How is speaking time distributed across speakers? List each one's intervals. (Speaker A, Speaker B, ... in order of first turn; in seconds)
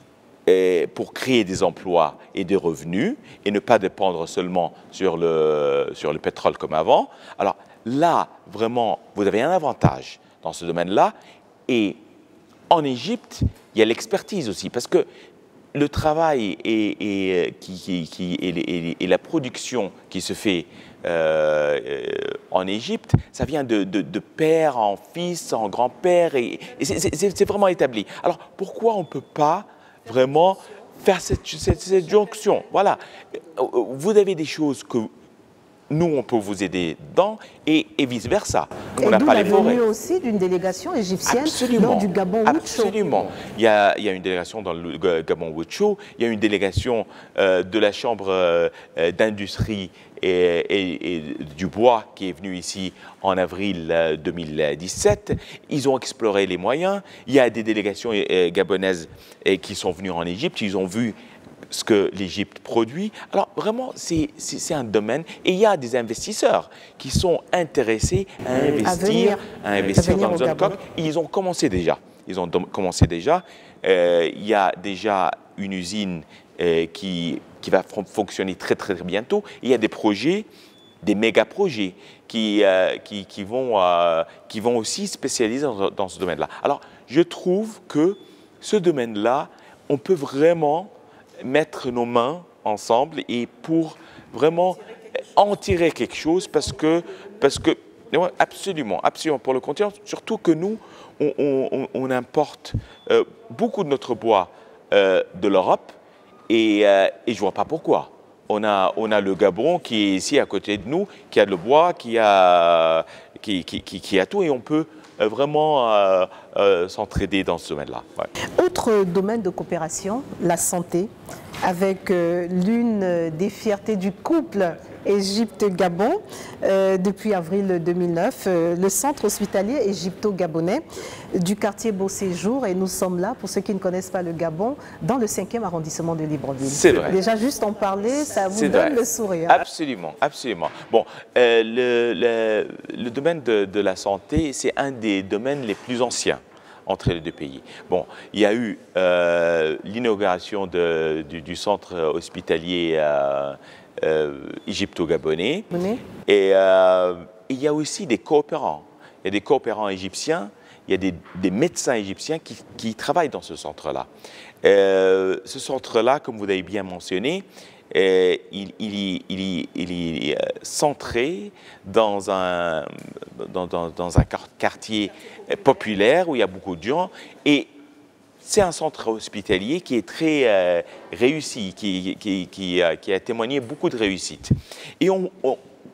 Speaker A: 0.5-11.1, 11.7-12.0, 12.7-15.1, 15.7-35.1, 35.9-39.8, 41.2-61.1, 61.7-80.5, 81.0-106.0, 106.5-118.3, 136.6-137.2, 138.5-164.1, 164.6-177.7, 178.4-185.6
Speaker B: 39.0-43.0, 68.8-69.4, 69.9-70.8, 118.5-139.6, 155.7-156.0